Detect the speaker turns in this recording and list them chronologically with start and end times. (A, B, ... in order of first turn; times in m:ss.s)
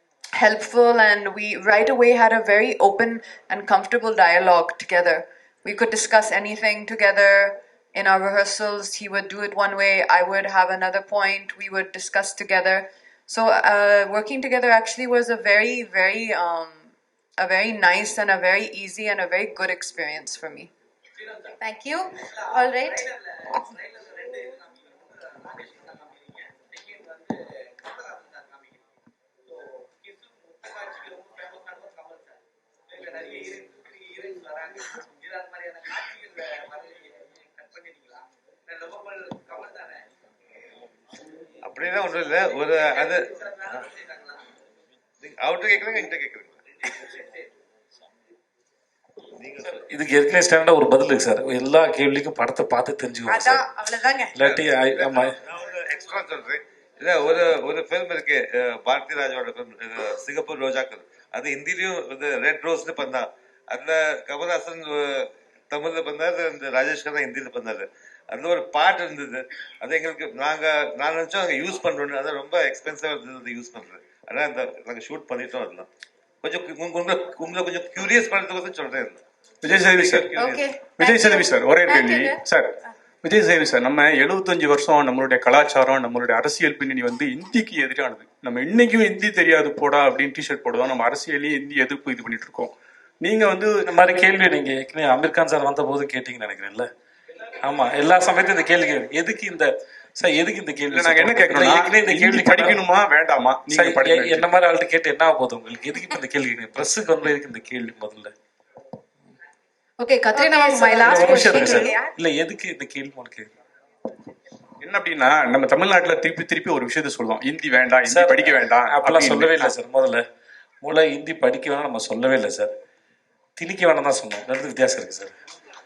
0:00.4-0:16.8 A
0:17.4-0:20.7 A
0:21.6-0:23.1 B
0:41.6-0:43.9 C
0:45.2-0:46.6 C
0:49.4-0:49.8 C
0:49.6-0:53.7 D
0:53.3-0:54.2 B
0:54.3-0:55.4 D
0:54.4-1:15.9 C
1:16.4-1:20.7 C
1:19.6-1:20.3 E
1:20.4-1:22.3 B
1:21.0-1:22.7 E
1:23.2-1:33.8 E
1:33.8-1:36.9 D
1:37.6-1:42.8 D
1:40.9-1:44.4 E
1:43.7-1:48.3 D
1:50.0-1:52.1 B
1:51.0-1:53.5 D
1:54.8-1:59.7 E
1:58.1-2:00.2 D
2:00.8-2:02.7 D
2:03.6-2:05.4 D